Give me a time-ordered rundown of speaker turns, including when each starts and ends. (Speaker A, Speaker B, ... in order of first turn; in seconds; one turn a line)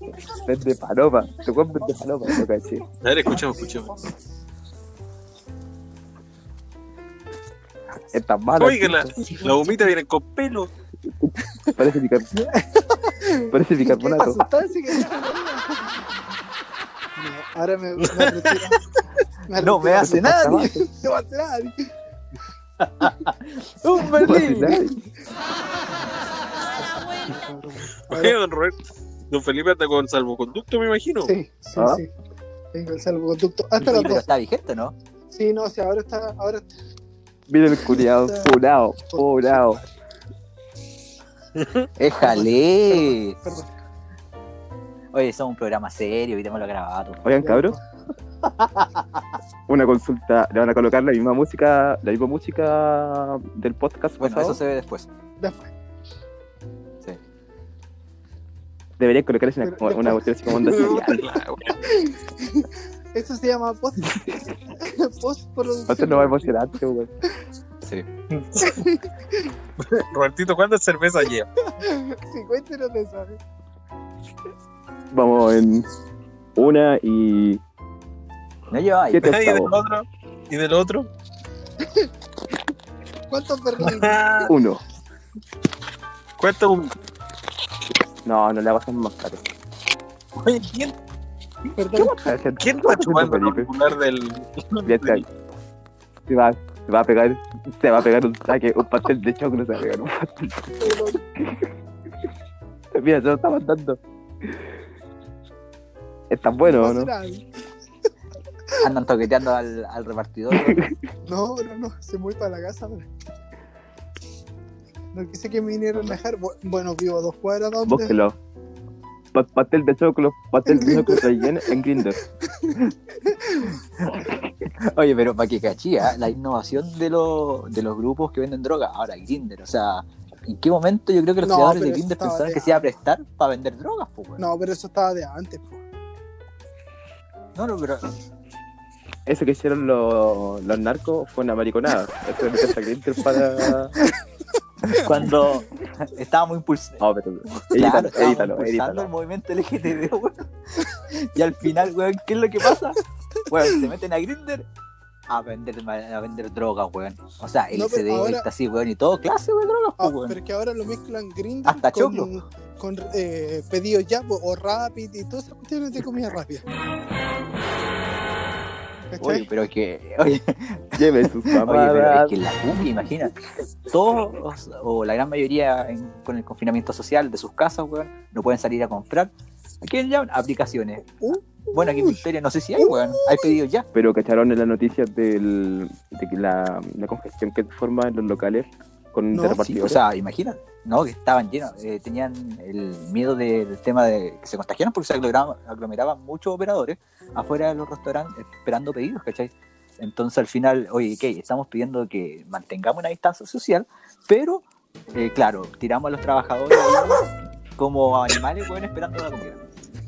Speaker A: 0.3-2.9
Speaker B: 3.0-3.9
Speaker A: 8.1-9.2
Speaker B: 8.6-10.7
Speaker A: 11.1-12.3
Speaker C: 12.4-16.0
Speaker A: 13.5-14.4
Speaker C: 17.2-18.8
Speaker B: 18.0-18.7
Speaker C: 19.5-21.9
Speaker D: 19.6-20.8
Speaker A: 20.0-20.8
Speaker D: 22.8-24.8
Speaker A: 24.2-25.0
Speaker C: 24.4-24.9
Speaker C: 26.8-28.4
Speaker B: 28.1-31.3
Speaker C: 31.3-32.1
Speaker A: 31.8-32.0
Speaker C: 32.7-34.3
Speaker D: 33.8-35.0
Speaker C: 35.3-36.7
Speaker A: 37.5-39.8
Speaker C: 37.9-38.5
Speaker C: 39.1-39.9
Speaker B: 41.6-41.9
Speaker D: 42.0-43.4
Speaker C: 42.2-43.7
Speaker D: 45.1-47.2
Speaker A: 47.2-47.8
Speaker C: 47.4-47.8
Speaker D: 48.4-49.1
Speaker A: 49.7-54.6
Speaker D: 54.2-55.1
Speaker C: 55.4-55.7
Speaker A: 59.0-61.2
Speaker C: 59.6-60.7
Speaker B: 60.5-61.8
Speaker C: 61.8-66.5
Speaker A: 64.1-64.4
Speaker A: 65.9-67.1
Speaker B: 68.3-68.8
Speaker C: 68.6-69.5
Speaker B: 69.8-71.5
Speaker C: 71.8-73.4
Speaker A: 75.1-75.9
Speaker A: 76.6-77.6
Speaker D: 78.7-79.3
Speaker A: 79.1-79.7
Speaker B: 79.2-81.1
Speaker C: 81.8-82.1
Speaker C: 83.3-84.5
Speaker B: 83.8-84.5
Speaker A: 84.5-84.8
Speaker B: 86.4-86.9
Speaker A: 88.2-89.4
Speaker B: 90.4-90.9
Speaker C: 91.8-92.3
Speaker A: 92.0-93.7
Speaker B: 92.6-95.2
Speaker A: 94.8-95.2
Speaker A: 96.3-101.7
Speaker C: 100.8-101.2
Speaker A: 102.9-104.6
Speaker A: 106.3-107.1
Speaker C: 106.6-107.4
Speaker D: 108.8-110.8
Speaker A: 110.5-110.9
Speaker C: 111.2-113.1
Speaker C: 115.1-118.2
Speaker A: 117.9-118.4
Speaker A: 119.3-122.2
Speaker C: 120.7-121.5
Speaker C: 122.4-123.8
Speaker D: 124.8-134.4
Speaker C: 131.4-132.9
Speaker C: 134.4-135.8
Speaker D: 137.6-138.1
Speaker A: 139.3-143.9
Speaker D: 144.8-147.0
Speaker A: 147.0-149.1
Speaker D: 147.7-154.7
Speaker D: 155.3-160.4
Speaker C: 157.7-158.5
Speaker C: 160.0-166.8
Speaker D: 161.7-162.3
Speaker C: 169.1-169.5
Speaker D: 169.2-173.3
Speaker A: 171.0-172.3
Speaker D: 173.9-183.9
Speaker C: 181.2-182.2
Speaker A: 183.9-190.0
Speaker C: 189.3-189.6
Speaker D: 189.6-207.2
Speaker D: 207.8-209.6